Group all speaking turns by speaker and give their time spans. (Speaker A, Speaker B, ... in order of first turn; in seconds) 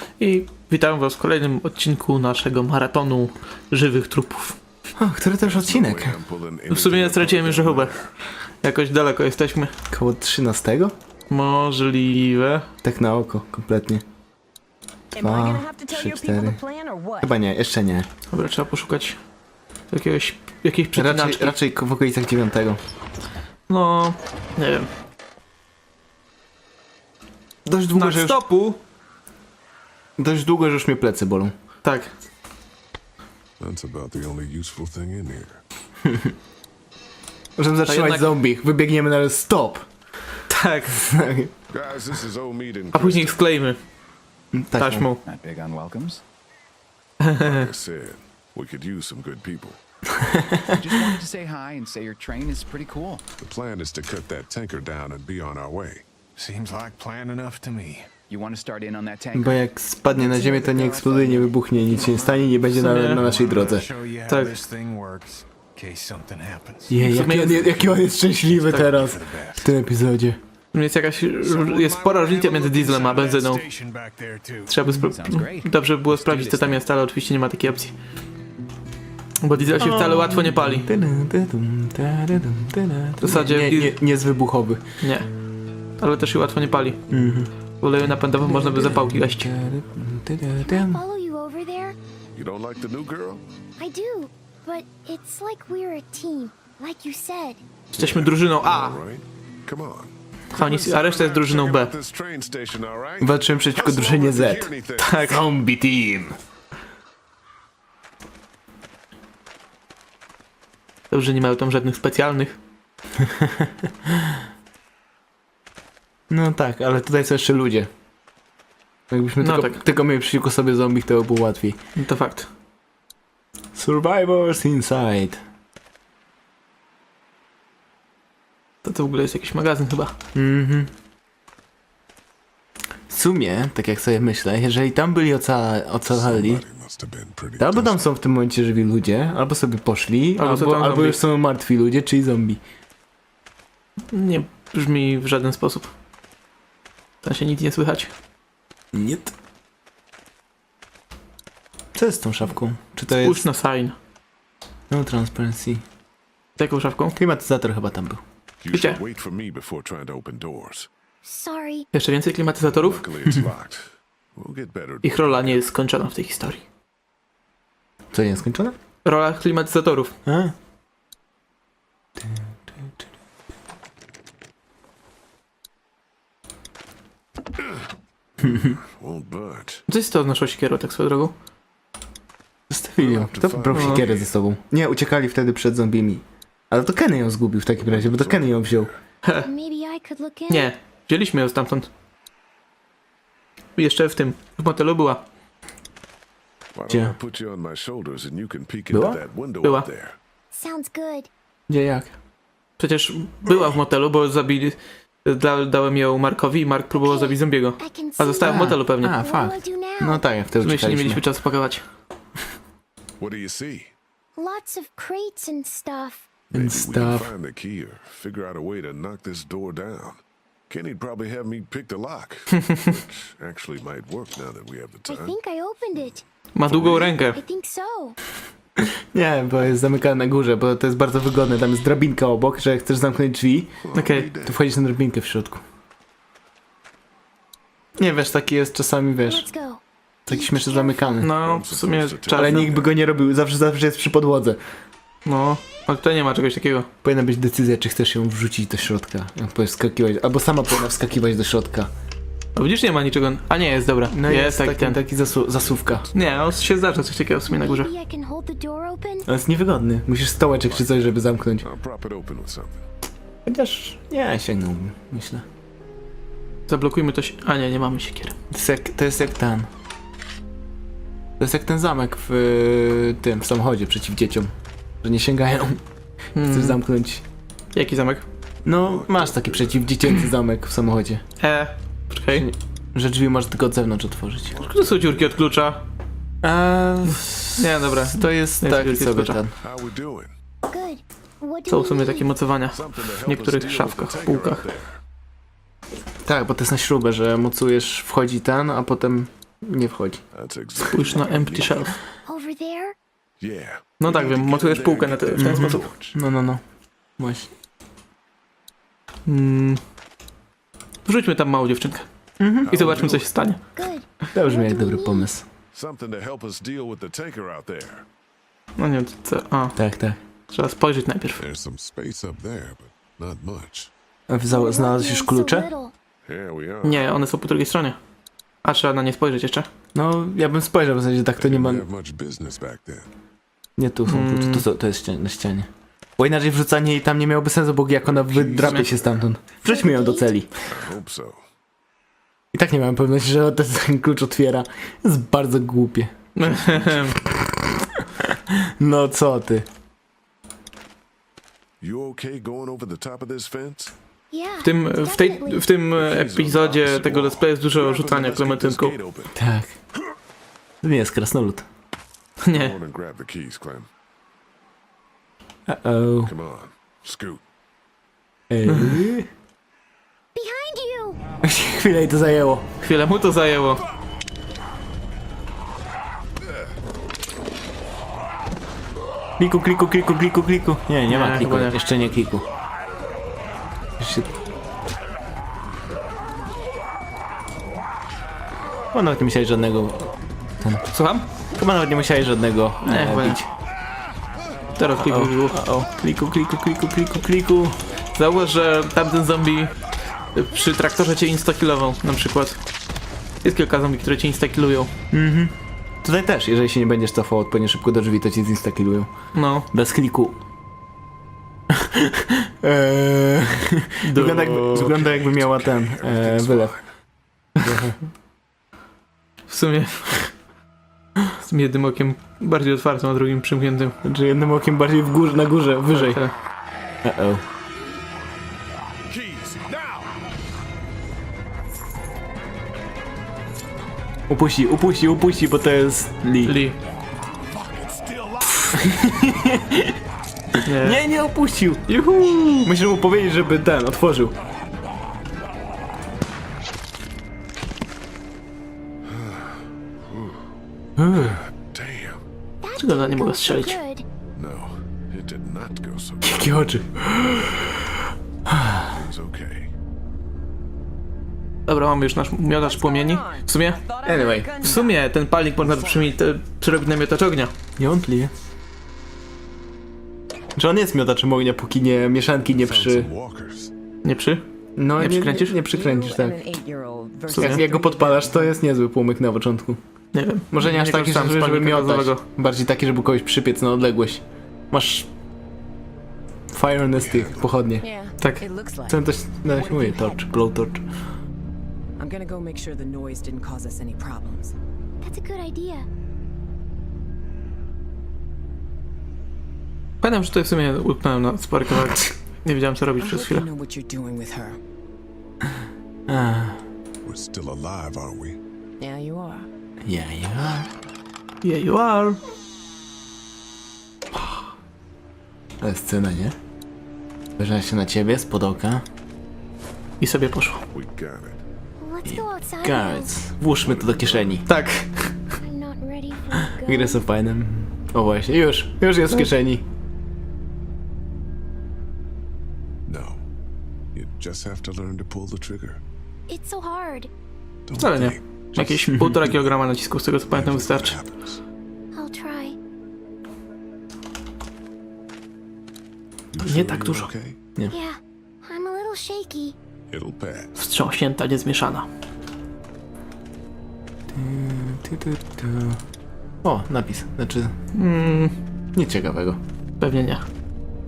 Speaker A: 0.2-4.6, 6.7-8.0, 8.6-9.7, 11.3-12.7, 18.3-19.2, 19.9-21.5, 23.7-24.9, 27.9-28.8, 31.8-32.1, 37.9-38.3, 40.5-41.0, 42.9-43.8, 44.8-45.2, 47.3-47.6, 62.7-63.2, 64.3-64.6, 67.0-67.7, 68.7-68.9, 70.7-73.6, 74.7-77.9, 79.4-80.9, 83.2-84.0, 85.0-85.3, 86.0-87.0, 87.8-89.5, 97.9-99.0, 100.5-101.9, 105.0-105.4, 111.1-112.5, 119.4-119.8, 122.0-122.5, 128.8-130.1, 140.4-141.2, 144.1-145.9, 147.2-148.1, 153.1-153.9, 156.6-157.2, 158.7-159.0, 161.9-163.0, 165.0-166.6, 169.0-170.1, 179.9-181.3, 183.7-184.0, 190.5-191.9, 193.8-195.2, 199.6-199.9, 202.8-209.1, 210.6-211.8, 226.5-227.4, 233.9-234.3, 241.2-242.7, 245.2-246.9, 252.6-255.0, 256.1-257.9, 266.7-268.3, 276.3-276.8, 277.7-278.2, 281.4-282.5, 284.6-285.8, 287.1-289.4, 291.7-294.7, 300.9-302.0, 304.0-305.8, 309.2-309.8, 311.0-312.1, 312.6-313.6, 318.8-319.8, 320.5-321.4, 326.8-328.0, 328.6-329.7, 334.1-334.6, 338.6-338.9, 346.4-347.2, 354.6-359.0, 362.4-362.8, 368.7-369.0, 372.8-373.8, 381.1-381.8, 390.9-391.2, 392.8-393.4, 394.8-395.6, 398.1-399.7, 400.3-402.6, 403.4-404.9, 409.3-409.6, 414.0-415.0, 419.5-420.3, 421.4-423.9, 425.9-426.3, 436.4-436.8, 440.6-441.0, 441.9-442.7, 452.8-453.8, 461.7-463.8, 464.6-467.5, 474.0-474.4, 475.0-475.6, 477.3-477.6, 480.1-482.2, 488.2-488.4, 500.0-503.4, 511.4-512.2, 520.0-520.6, 524.5-525.1, 537.8-541.0, 546.4-547.1, 550.5-551.9, 557.7-558.3, 559.8-560.2
Speaker B: 5.0-6.2, 9.9-10.9, 12.8-14.0, 15.2-16.6, 17.2-18.1, 20.9-22.8, 27.6-28.4, 30.2-31.5, 36.0-36.3, 37.6-39.8, 41.0-41.5, 44.5-45.1, 50.2-51.2, 59.3-63.9, 66.9-70.4, 79.8-84.8, 87.1-87.5, 88.4-91.0, 103.2-104.7, 105.2-106.3, 113.2-114.1, 116.3-117.9, 119.1-121.8, 123.7-125.4, 130.3-130.9, 133.1-136.6, 137.6-142.6, 148.9-149.3, 151.9-153.4, 154.9-155.8, 157.2-158.2, 168.1-168.7, 170.2-170.5, 182.7-188.9, 196.9-197.2, 198.9-199.2, 201.7-202.1, 208.4-211.2, 216.5-217.3, 229.1-233.8, 234.4-235.6, 238.0-239.5, 240.3-241.3, 242.3-244.6, 247.0-251.9, 254.1-256.1, 259.2-261.6, 263.4-265.4, 268.5-269.7, 271.4-274.5, 275.0-275.8, 276.4-277.2, 278.6-281.2, 282.3-284.6, 286.4-289.5, 296.2-300.2, 305.4-306.6, 307.2-307.5, 312.4-312.7, 314.3-315.4, 319.8-320.2, 324.3-325.7, 329.9-331.9, 333.8-340.5, 342.5-346.1, 348.2-349.6, 359.4-359.7, 360.8-361.6, 365.7-366.3, 368.5-369.3, 371.4-372.6, 379.4-382.4, 384.0-384.3, 388.9-390.8, 391.5-393.5, 395.0-397.8, 405.1-409.1, 409.7-410.4, 411.7-416.7, 417.6-418.0, 424.0-426.2, 427.0-427.4, 434.3-436.6, 438.8-439.9, 440.8-444.3, 451.0-451.4, 456.2-457.8, 458.5-458.9, 464.1-464.5, 467.8-468.3, 470.6-473.1, 474.8-476.4, 477.4-479.8, 480.5-485.1, 486.5-487.8, 488.9-490.8, 506.1-506.6, 509.8-510.7, 515.6-516.3, 517.4-518.8, 522.0-524.4, 526.6-529.6, 554.1-555.8, 556.4-557.5, 558.7-559.4
Speaker C: 5.4-8.1, 33.6-35.6, 41.7-43.4, 47.3-49.8, 53.4-56.0, 92.3-93.4, 97.9-105.3, 136.1-138.0, 158.6-160.9, 162.6-165.6, 178.4-179.8, 183.0-184.3, 187.8-188.9, 196.7-200.2, 213.2-213.9, 216.5-225.4, 226.6-227.3, 233.8-234.6, 241.3-243.0, 255.6-257.2, 260.3-262.9, 278.7-279.9, 284.5-285.7, 289.6-290.3, 292.7-295.0, 300.3-301.9, 303.4-306.1, 312.6-313.6, 315.7-318.0, 321.4-323.9, 326.2-327.1, 331.4-333.1, 338.1-338.8, 340.7-341.4, 351.8-353.9, 355.7-359.3, 362.5-363.9, 366.2-367.4, 414.7-416.8, 449.1-450.4, 451.2-452.2, 454.4-456.7, 458.8-459.7, 465.6-466.1, 472.5-473.7, 487.0-487.6, 507.0-508.4, 520.7-521.4, 523.5-524.4, 532.9-533.2, 533.9-535.8, 537.7-539.5, 540.3-541.4, 546.3-547.4, 549.9-550.5
Speaker D: 15.1-17.3, 462.6-465.0, 475.7-478.6, 487.8-490.2, 492.0-494.5, 503.0-504.6, 508.8-509.5
Speaker E: 45.2-46.2, 50.8-53.2, 58.3-58.6, 59.2-59.5, 60.1-61.4, 62.1-62.5, 75.1-75.6, 76.2-76.8
Speaker F: 56.4-58.1, 61.9-67.0, 67.5-69.7, 71.4-74.7, 429.1-430.1, 437.5-438.8
Speaker G: 90.6-92.0, 93.8-97.6, 161.2-161.9, 189.4-190.7, 200.5-201.3, 206.9-210.3, 214.4-216.2, 225.1-226.2, 227.0-228.2, 239.2-241.2, 257.5-259.3, 290.7-292.3, 302.3-302.9, 313.8-315.3, 324.5-325.9, 339.6-340.4, 354.3-355.7, 370.3-371.2, 452.6-454.1, 495.0-495.9, 521.8-523.1, 525.4-527.0, 536.3-537.1, 541.9-542.5, 547.7-549.5